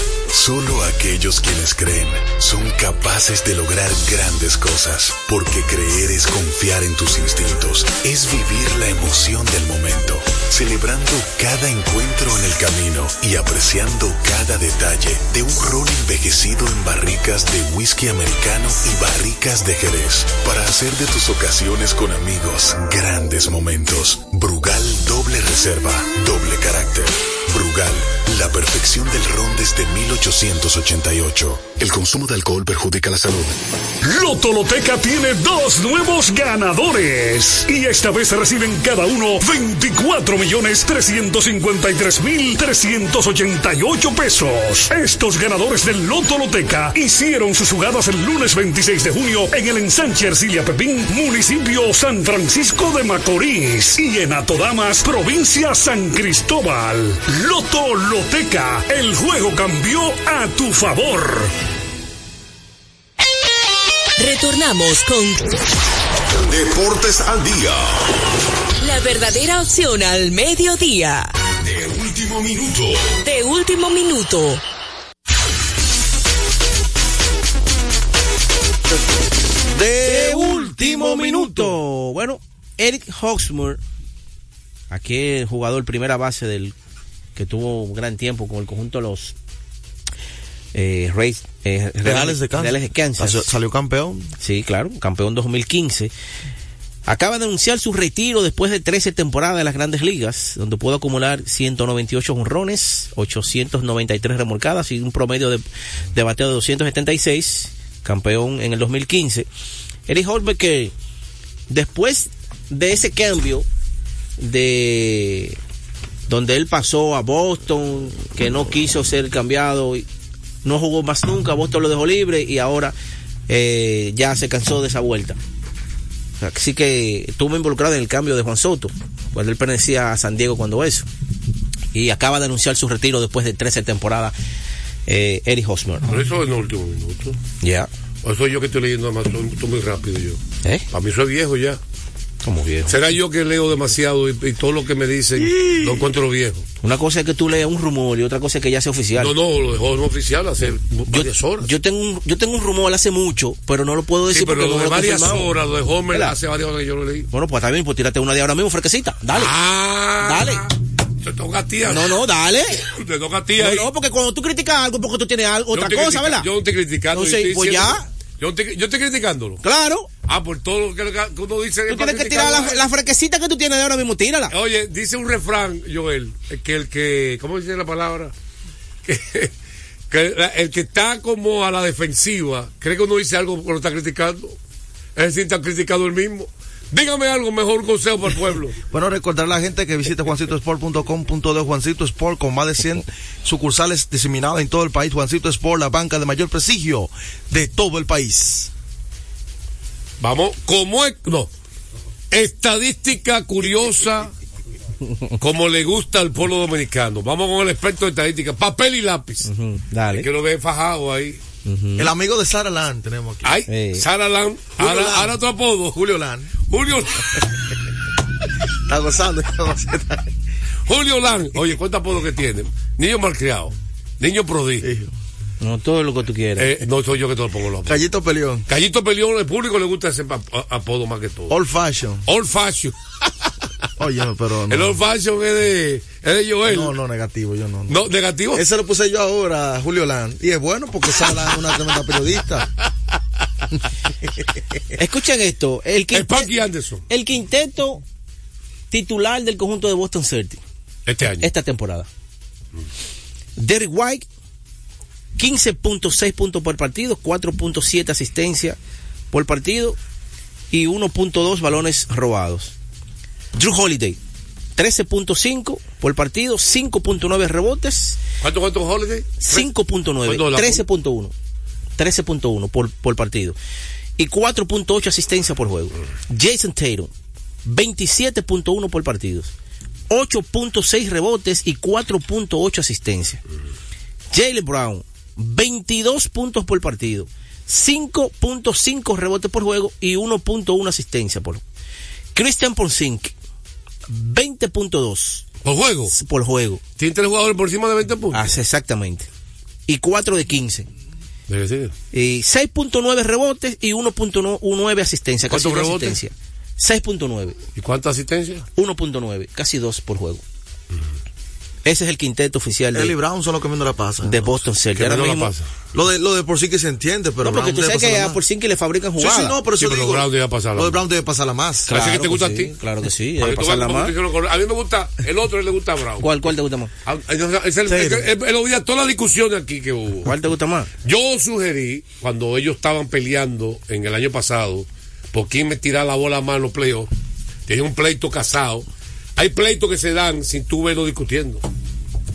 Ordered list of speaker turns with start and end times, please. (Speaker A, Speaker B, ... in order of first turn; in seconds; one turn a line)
Speaker A: 0.3-33.6
Speaker B: 34.0-61.5
Speaker C: 64.2-65.5
Speaker D: 66.3-68.1
Speaker C: 68.8-71.3
Speaker D: 71.6-73.2
Speaker C: 73.2-74.6
Speaker E: 79.7-81.8
Speaker F: 80.0-83.8
Speaker F: 84.9-86.8
Speaker F: 87.4-89.3
Speaker F: 90.7-93.5
Speaker E: 92.0-94.3
Speaker F: 94.4-96.1
Speaker F: 97.1-109.5
Speaker F: 110.1-110.9
Speaker F: 111.7-113.7
Speaker F: 114.4-115.6
Speaker F: 116.3-120.0
Speaker F: 120.6-123.0
Speaker F: 123.5-125.4
Speaker F: 126.4-131.1
Speaker F: 131.9-134.3
Speaker F: 135.1-136.1
Speaker G: 136.1-137.4
Speaker F: 137.6-137.9
Speaker G: 138.2-141.8
Speaker F: 142.4-143.0
Speaker G: 142.9-146.7
Speaker F: 146.8-149.3
Speaker G: 149.2-151.7
Speaker F: 151.1-155.5
Speaker G: 154.3-157.3
Speaker F: 156.1-156.4
Speaker F: 157.3-159.5
Speaker G: 159.3-162.2
Speaker F: 160.2-160.7
Speaker F: 161.8-162.8
Speaker G: 162.8-163.9
Speaker F: 163.6-166.5
Speaker G: 165.7-169.6
Speaker F: 167.1-168.1
Speaker F: 169.6-170.1
Speaker G: 170.3-172.8
Speaker F: 171.9-174.6
Speaker G: 174.5-178.3
Speaker G: 179.1-179.5
Speaker G: 180.1-184.6
Speaker G: 185.2-188.8
Speaker E: 188.9-198.7
Speaker G: 200.2-201.5
Speaker G: 202.3-204.3
Speaker G: 205.4-209.5
Speaker F: 209.4-210.3
Speaker G: 210.1-211.4
Speaker F: 211.7-212.1
Speaker E: 212.0-213.6
Speaker G: 213.4-216.0
Speaker F: 213.7-214.1
Speaker E: 214.8-216.5
Speaker G: 216.6-217.3
Speaker E: 218.9-220.3
Speaker G: 220.9-224.9
Speaker E: 224.8-225.1
Speaker F: 225.6-226.8
Speaker G: 226.6-228.1
Speaker E: 227.9-228.7
Speaker G: 228.7-231.6
Speaker E: 231.5-232.3
Speaker G: 232.3-233.0
Speaker E: 234.0-235.0
Speaker G: 234.7-236.9
Speaker E: 236.7-242.7
Speaker G: 237.9-238.7
Speaker F: 245.0-246.5
Speaker G: 246.1-247.0
Speaker F: 247.1-248.0
Speaker F: 248.9-250.6
Speaker G: 251.1-251.5
Speaker F: 251.4-252.1
Speaker F: 253.6-254.2
Speaker F: 255.4-258.8
Speaker F: 259.3-260.0
Speaker F: 260.7-262.7
Speaker F: 263.6-264.2
Speaker F: 264.8-268.2
Speaker G: 268.4-269.7
Speaker F: 269.4-271.3
Speaker G: 270.2-270.9
Speaker F: 272.0-273.6
Speaker F: 274.2-277.1
Speaker F: 277.6-279.5
Speaker F: 280.1-283.4
Speaker F: 284.3-291.6
Speaker F: 292.4-293.3
Speaker F: 294.1-295.4
Speaker G: 295.6-296.1
Speaker F: 296.1-296.8
Speaker G: 297.0-298.5
Speaker F: 298.3-299.3
Speaker F: 299.9-300.9
Speaker G: 301.5-301.9
Speaker F: 302.1-307.6
Speaker G: 305.5-306.2
Speaker G: 307.8-308.7
Speaker F: 308.8-310.4
Speaker F: 311.9-313.2
Speaker E: 312.9-314.6
Speaker F: 314.2-315.5
Speaker G: 314.9-315.7
Speaker E: 315.9-318.4
Speaker F: 317.4-319.6
Speaker E: 319.2-321.9
Speaker G: 319.8-321.0
Speaker G: 321.9-322.8
Speaker F: 321.9-324.1
Speaker G: 323.4-326.3
Speaker F: 326.2-326.9
Speaker G: 327.1-330.3
Speaker E: 327.9-328.3
Speaker F: 330.2-330.9
Speaker G: 331.0-337.1
Speaker G: 337.7-341.6